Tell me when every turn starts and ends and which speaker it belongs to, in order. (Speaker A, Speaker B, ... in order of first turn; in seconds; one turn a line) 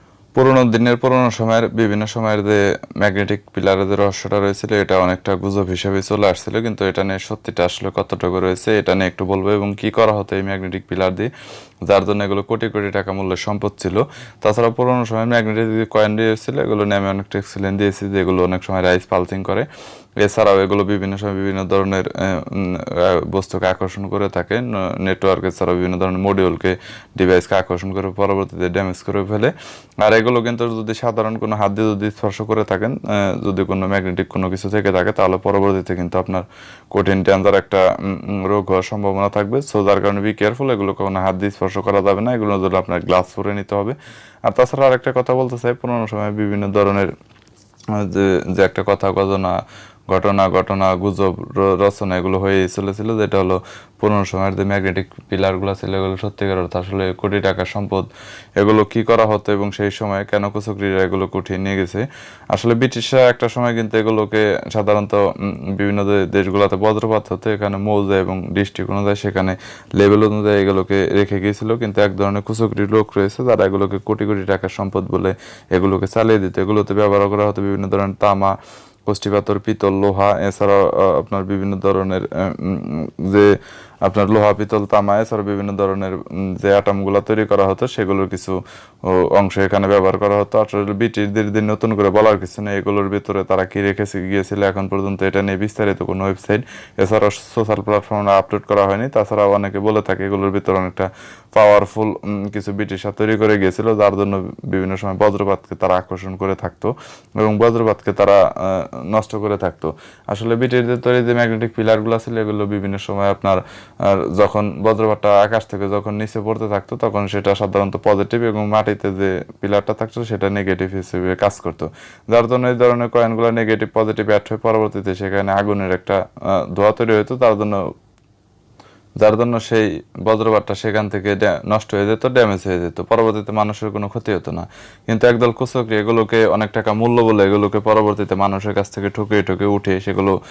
Speaker A: 0.3-11.3
Speaker A: 11.8-19.7
Speaker A: 20.2-47.1
Speaker A: 47.9-49.6
Speaker A: 50.1-78.5
Speaker A: 79.1-127.8
Speaker A: 129.2-140.4